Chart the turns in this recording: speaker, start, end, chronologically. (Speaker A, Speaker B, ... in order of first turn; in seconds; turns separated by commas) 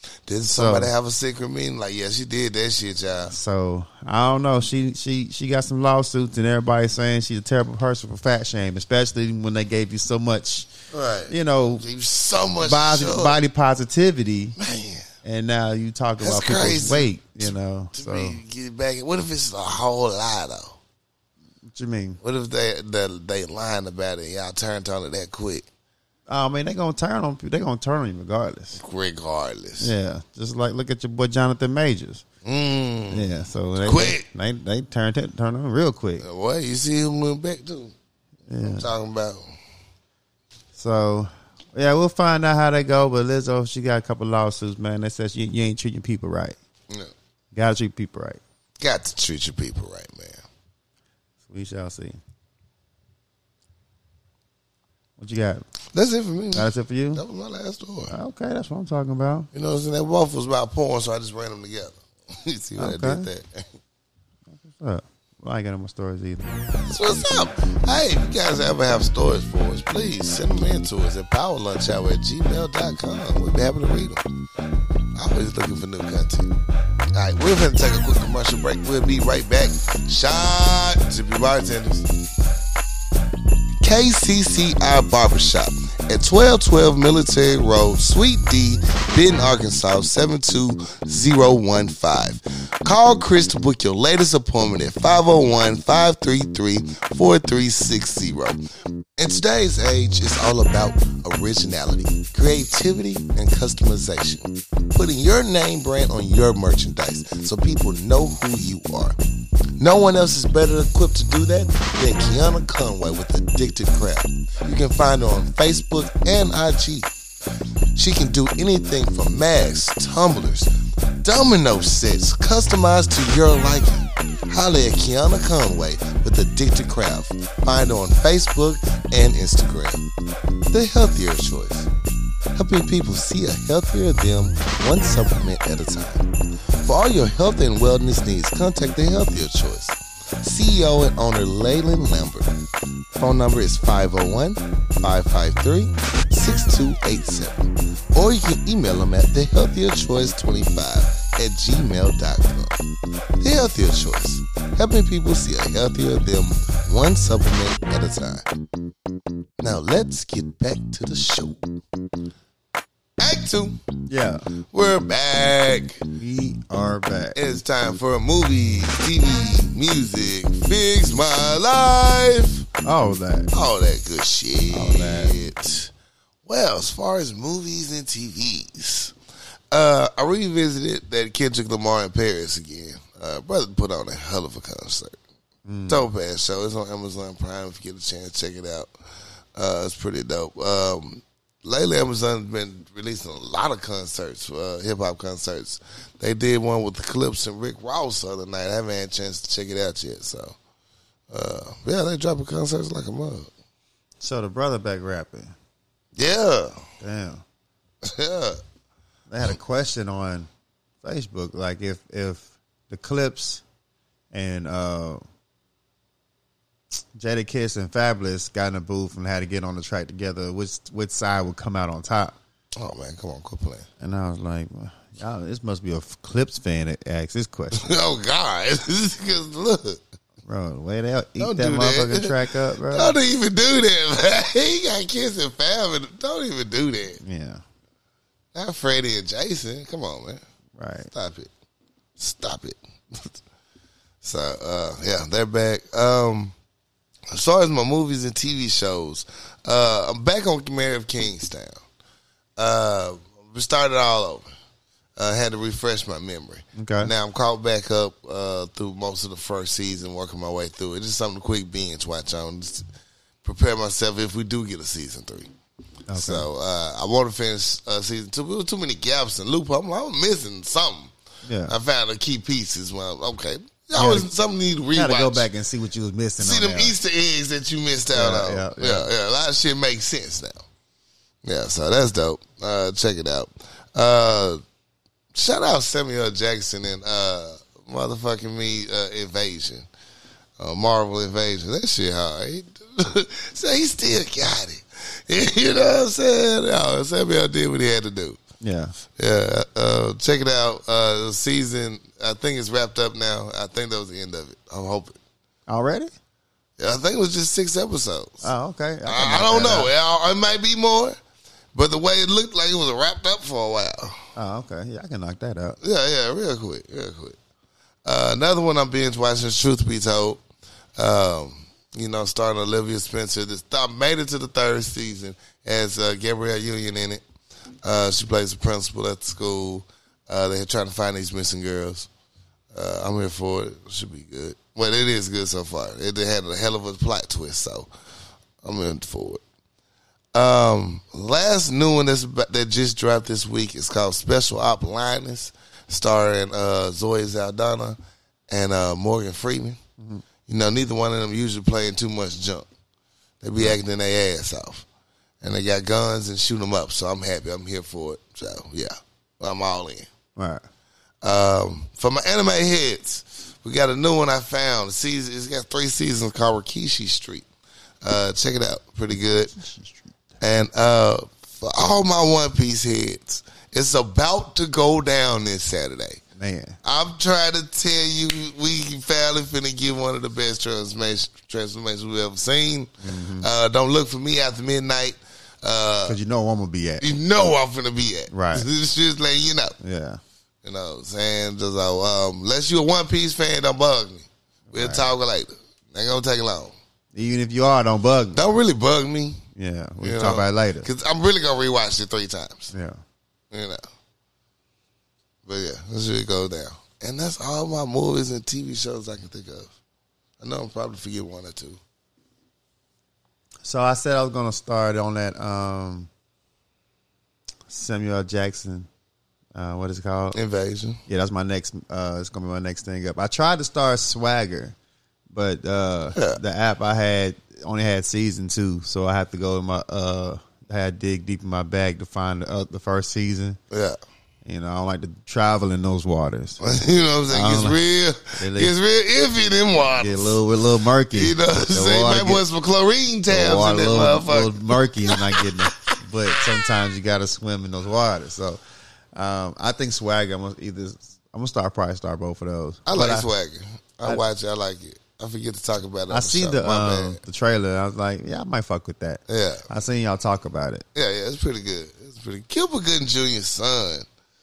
Speaker A: 0.3-3.3, Speaker B: 0.5-0.9, Speaker B: 3.3-10.7, Speaker A: 10.9-13.4, Speaker B: 11.3-11.8, Speaker B: 12.6-14.6, Speaker A: 14.6-15.1, Speaker B: 15.2-18.4, Speaker A: 16.2-20.8, Speaker B: 21.7-22.2, Speaker A: 22.2-25.6, Speaker B: 26.3-28.8, Speaker A: 28.8-29.9, Speaker B: 29.8-32.2, Speaker A: 32.4-33.3, Speaker B: 33.1-36.2, Speaker A: 33.8-34.2, Speaker A: 36.2-37.9, Speaker B: 38.5-38.9, Speaker A: 38.6-39.4, Speaker B: 40.7-46.6, Speaker B: 47.5-48.4, Speaker A: 48.8-50.4, Speaker B: 51.5-52.2, Speaker B: 55.2-55.6, Speaker A: 55.9-58.1, Speaker B: 56.5-57.2, Speaker B: 58.1-59.5, Speaker A: 59.5-63.7, Speaker B: 62.8-63.3, Speaker B: 64.6-66.5, Speaker A: 66.9-74.2, Speaker A: 75.1-76.5, Speaker A: 77.1-82.1, Speaker A: 83.8-98.6, Speaker A: 99.2-109.2, Speaker A: 109.8-117.1, Speaker A: 117.9-130.1, Speaker A: 130.7-131.9, Speaker A: 132.5-142.6, Speaker A: 143.2-152.8, Speaker A: 153.4-158.4, Speaker A: 159.6-161.8, Speaker A: 163.2-163.8, Speaker B: 164.1-164.4, Speaker A: 164.7-166.0, Speaker B: 166.2-167.4, Speaker A: 167.3-172.7, Speaker B: 172.8-173.5, Speaker A: 173.5-175.9, Speaker B: 174.7-175.3, Speaker A: 176.4-179.1, Speaker A: 179.7-185.2, Speaker B: 185.7-186.1, Speaker A: 185.9-188.9, Speaker A: 189.6-200.5, Speaker A: 201.3-203.5, Speaker B: 204.2-205.5, Speaker A: 206.2-206.8, Speaker B: 207.0-207.4, Speaker A: 208.0-208.6, Speaker B: 209.3-210.5, Speaker B: 211.0-213.6, Speaker B: 214.3-215.2, Speaker B: 217.1-222.3, Speaker A: 222.8-223.9, Speaker B: 224.0-227.8, Speaker A: 227.7-230.0, Speaker B: 230.4-233.2, Speaker A: 231.4-232.3, Speaker A: 232.9-237.2, Speaker B: 237.2-237.6, Speaker A: 238.5-240.4, Speaker B: 240.8-241.1, Speaker A: 241.1-241.5, Speaker A: 242.2-243.3, Speaker A: 244.2-246.5, Speaker A: 247.3-251.8, Speaker A: 252.6-254.5, Speaker A: 255.2-262.9, Speaker B: 256.8-257.1, Speaker A: 263.4-265.5, Speaker B: 266.1-266.5, Speaker A: 266.1-271.1, Speaker B: 271.4-271.7, Speaker A: 271.7-275.4, Speaker B: 273.9-274.3, Speaker B: 274.9-276.9, Speaker A: 276.4-280.6, Speaker B: 278.1-279.1, Speaker A: 281.4-284.6, Speaker A: 285.3-289.9, Speaker A: 290.6-298.4, Speaker B: 298.6-298.9, Speaker A: 299.1-305.2, Speaker B: 305.7-306.1, Speaker A: 306.8-308.5, Speaker B: 308.4-309.9, Speaker A: 309.1-311.2, Speaker A: 311.7-314.2, Speaker B: 314.4-315.8, Speaker A: 315.8-317.4, Speaker A: 318.0-320.4, Speaker A: 321.0-327.2, Speaker A: 327.8-332.1, Speaker A: 332.7-337.9, Speaker A: 338.6-339.4, Speaker A: 340.3-348.0, Speaker A: 348.5-349.8, Speaker A: 350.5-352.7, Speaker A: 353.4-354.9, Speaker A: 355.4-360.1, Speaker B: 360.4-360.6, Speaker A: 361.2-367.4, Speaker A: 368.0-369.5, Speaker B: 369.5-370.1, Speaker A: 370.4-376.2, Speaker B: 376.4-376.8, Speaker A: 376.8-386.2, Speaker B: 383.0-383.5, Speaker B: 386.1-387.1, Speaker A: 387.0-389.8, Speaker B: 388.3-388.7, Speaker B: 389.8-390.2, Speaker A: 390.6-396.7, Speaker B: 394.7-395.1, Speaker B: 397.1-398.4, Speaker A: 398.3-399.4, Speaker B: 399.6-400.9, Speaker A: 400.0-402.7, Speaker B: 402.7-403.0, Speaker A: 403.5-403.8, Speaker A: 405.4-409.7, Speaker A: 410.4-411.8, Speaker B: 413.6-416.1, Speaker B: 417.7-418.9, Speaker B: 419.5-420.4, Speaker A: 420.3-421.0, Speaker B: 421.1-424.7, Speaker B: 425.3-433.6, Speaker A: 433.7-434.0, Speaker B: 434.4-436.6, Speaker A: 436.6-440.4, Speaker B: 437.3-437.8, Speaker B: 438.3-438.7, Speaker B: 439.9-442.4, Speaker A: 441.1-445.9, Speaker B: 443.3-448.6, Speaker B: 449.1-453.3, Speaker A: 452.9-457.2, Speaker B: 456.1-460.8, Speaker A: 459.3-459.6, Speaker A: 460.9-464.1